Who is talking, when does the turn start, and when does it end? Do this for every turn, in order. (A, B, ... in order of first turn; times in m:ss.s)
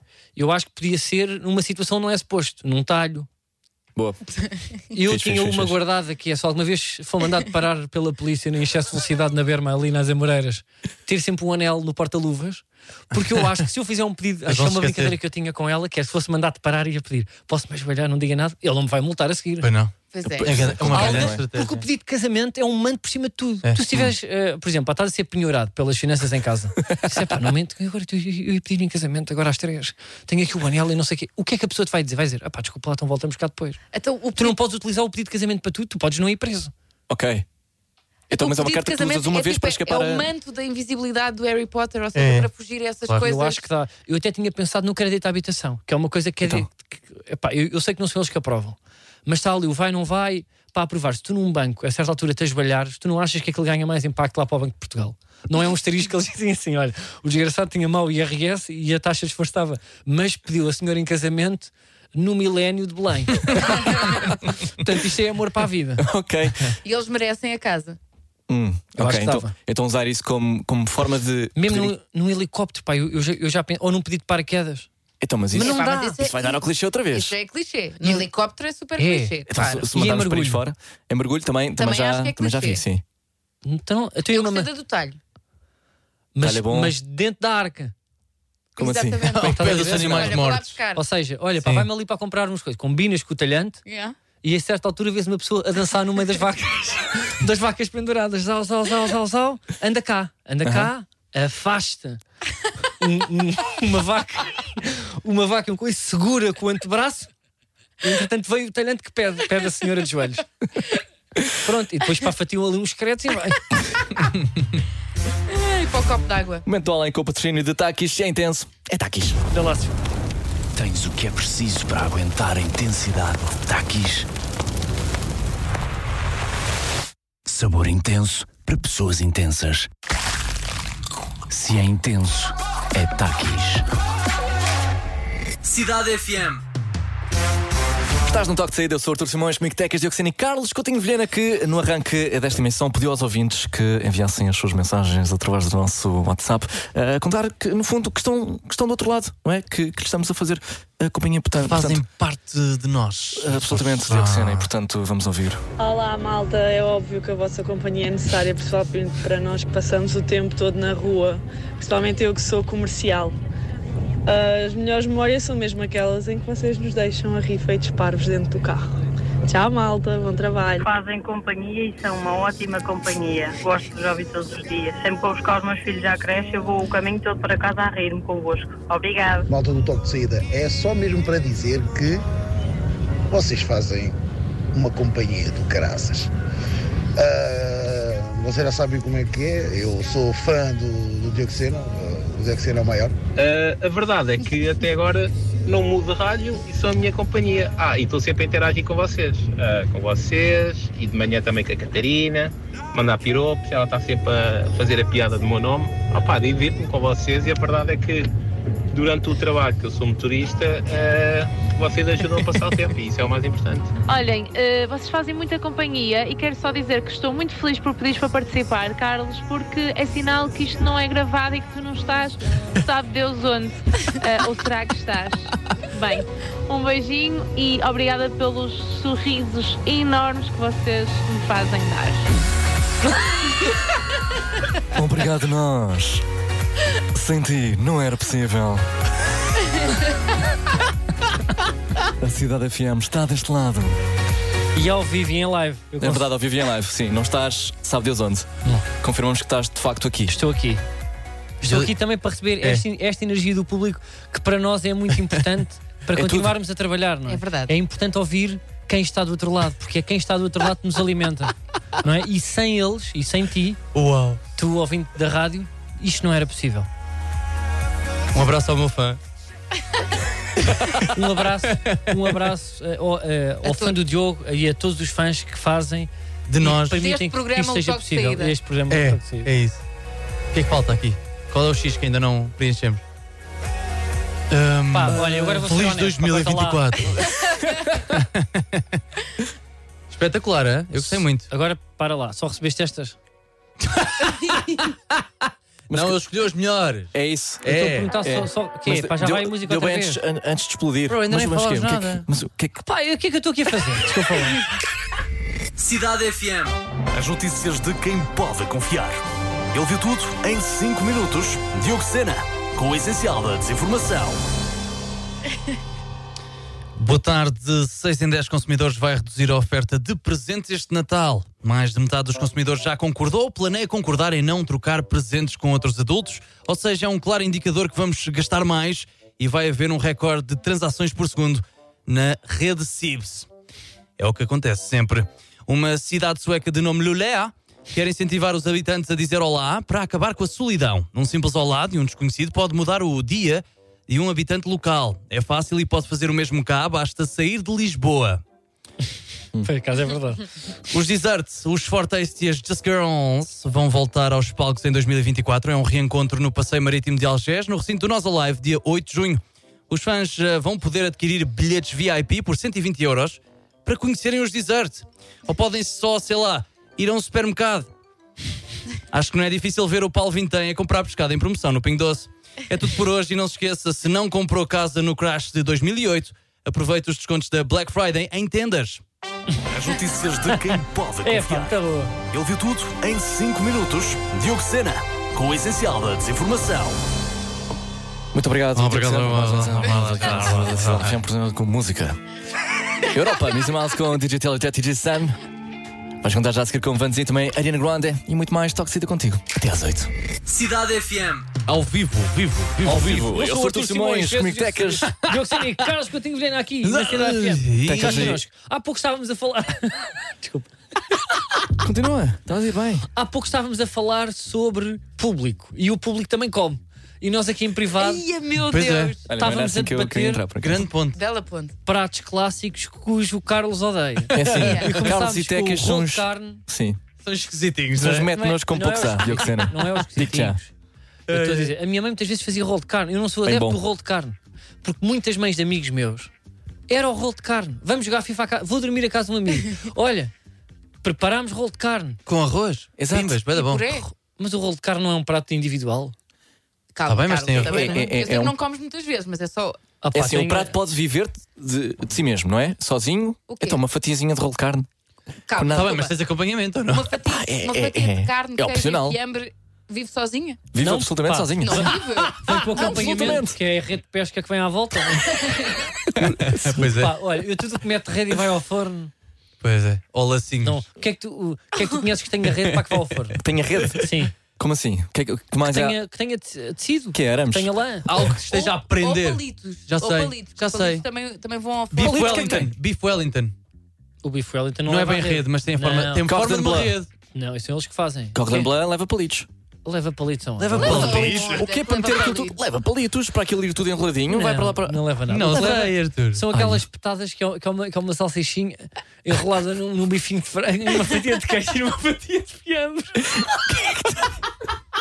0:00.4-0:03.3 A
0:04.0-0:04.4 B
0:04.9-0:19.7 A
0:05.0-0:05.8 B
0:14.5-0:15.2 C
0:19.6-0:21.8 C
0:20.1-0:20.6 D
0:20.3-0:21.4 B
0:20.9-0:33.8 A
0:23.6-0:24.1 C
0:33.9-0:34.6 D
0:34.4-0:36.7 A
0:37.1-0:37.4 B
0:38.3-0:40.3 B
0:38.4-0:43.7 D
0:42.1-0:42.5 C
0:43.2-1:06.0 A
0:46.4-0:46.7 B
1:06.0-1:06.7 B
1:06.8-1:08.0 D
1:08.5-1:11.9 B
1:09.0-1:09.5 A
1:11.6-1:14.9 A
1:15.2-1:17.4 B
1:15.5-1:16.2 A
1:15.6-1:19.9 D
1:19.0-1:19.4 A
1:19.5-1:23.0 B
1:19.9-1:20.6 A
1:21.8-1:22.8 D
1:23.6-1:24.7 A
1:24.3-1:25.2 D
1:26.4-1:27.9 A
1:26.4-1:27.0 B
1:28.8-1:31.0 D
1:28.8-1:30.2 B
1:29.3-1:30.7 C
1:29.4-1:33.8 A
1:31.6-1:31.9 C
1:33.8-1:34.2 D
1:34.4-1:42.2 A
1:40.6-1:40.9 B
1:43.0-1:47.3 A
1:48.0-1:50.5 A
1:51.6-1:53.8 A
1:55.5-1:56.6 D
1:56.6-1:59.4 B
1:59.5-1:59.9 A
2:00.8-2:04.3 E
2:07.5-2:09.9 E
2:11.5-2:13.8 E
2:15.6-2:16.6 C
2:18.3-2:32.0 B
2:31.6-2:34.7 C
2:33.4-2:35.6 B
2:35.8-2:43.4 F
2:44.3-2:48.9 F
2:49.5-2:50.9 F
2:50.8-2:59.5 G
2:59.5-3:02.2 H
3:03.3-3:04.2 H
3:04.7-3:06.3 H
3:07.2-3:13.2 H
3:13.4-3:28.3 I
3:28.9-3:33.9 I
3:34.1-3:52.3 J
3:54.9-3:56.2 B
3:57.1-3:58.8 B
4:02.2-4:04.0 B
4:04.7-4:06.3 A
4:06.0-4:08.5 B
4:09.0-4:10.4 B
4:10.3-4:10.8 A
4:11.6-4:23.8 A
4:11.6-4:11.9 C
4:16.1-4:16.5 B
4:17.3-4:17.7 D
4:23.9-4:24.4 C
4:24.6-4:26.9 A
4:28.3-4:29.2 C
4:30.7-4:31.1 C
4:31.1-4:36.1 A
4:33.6-4:34.0 D
4:36.5-4:37.0 C
4:36.6-4:38.6 D
4:36.8-4:39.5 A
4:38.9-4:39.8 C
4:40.5-4:43.0 C
4:44.5-4:48.8 C
4:44.9-4:47.0 A
4:50.1-4:51.5 C
4:51.0-4:53.2 A
4:54.0-4:54.6 C
4:55.9-4:56.2 B
4:55.9-4:57.1 C
4:57.1-5:02.8 B
4:57.6-4:58.1 C
4:57.7-5:00.2 A
5:01.1-5:02.2 C
5:02.8-5:04.6 A
5:05.8-5:09.2 C
5:09.7-5:14.4 C
5:17.0-5:33.5 C
5:34.2-5:48.4 C
5:49.6-5:50.4 A
5:50.9-6:07.9 C
6:09.1-6:19.0 C
6:19.8-6:21.7 C
6:21.2-6:22.2 A
6:22.3-6:26.9 C
6:28.3-6:32.2 B
6:28.8-6:31.2 C
6:33.1-6:35.4 B
6:36.2-6:40.1 B
6:40.5-6:43.2 C
6:42.9-6:45.1 B
6:42.9-6:50.7 A
6:46.8-6:48.4 C
6:47.9-6:48.4 B
6:51.8-6:53.1 B
6:53.1-6:58.3 A
6:58.0-6:59.2 D
6:58.6-6:59.2 C
6:59.3-7:00.9 B
6:59.3-7:00.4 A
7:00.6-7:01.2 C
7:01.1-7:01.7 D
7:01.8-7:06.6 A
7:04.3-7:07.0 B
7:04.6-7:05.0 D
7:07.2-7:08.3 C
7:08.0-7:10.6 B
7:08.4-7:10.7 A
7:11.3-7:11.7 C
7:11.3-7:16.3 A
7:13.4-7:13.8 B
7:16.9-7:20.3 A
7:21.0-7:22.2 A
7:22.3-7:23.9 C
7:23.0-7:23.4 B
7:23.5-7:24.1 D
7:23.9-7:26.2 A
7:26.9-7:29.8 D
7:27.1-7:28.0 C
7:27.6-7:28.6 B
7:30.0-7:30.7 A
7:30.1-7:34.9 B
7:33.5-7:33.8 D
7:35.5-7:36.2 D
7:35.5-7:35.9 B
7:35.7-7:37.2 C
7:36.9-7:40.6 D
7:37.3-7:39.2 B
7:40.7-7:41.9 B
7:40.8-7:45.6 A
7:41.6-7:43.4 D
7:42.7-7:43.6 B
7:46.1-7:46.9 B
7:46.2-7:47.1 C
7:46.9-7:49.1 A
7:49.6-7:50.8 C
7:50.6-7:53.4 A
7:53.4-7:56.0 B
7:54.0-7:54.3 A
7:55.6-7:58.1 A
7:57.1-7:57.7 B
7:58.1-8:01.1 C
7:58.5-8:02.7 D
8:01.9-8:03.6 C
8:02.0-8:02.7 B
8:04.2-8:06.3 A
8:04.9-8:07.1 C
8:06.2-8:07.0 B
8:07.3-8:08.7 A
8:08.3-8:09.5 B
8:09.8-8:11.5 A
8:10.6-8:11.7 C
8:10.8-8:12.6 D
8:10.9-8:15.0 B
8:14.3-8:23.3 A
8:15.3-8:16.8 C
8:15.5-8:15.8 B
8:23.5-8:24.3 B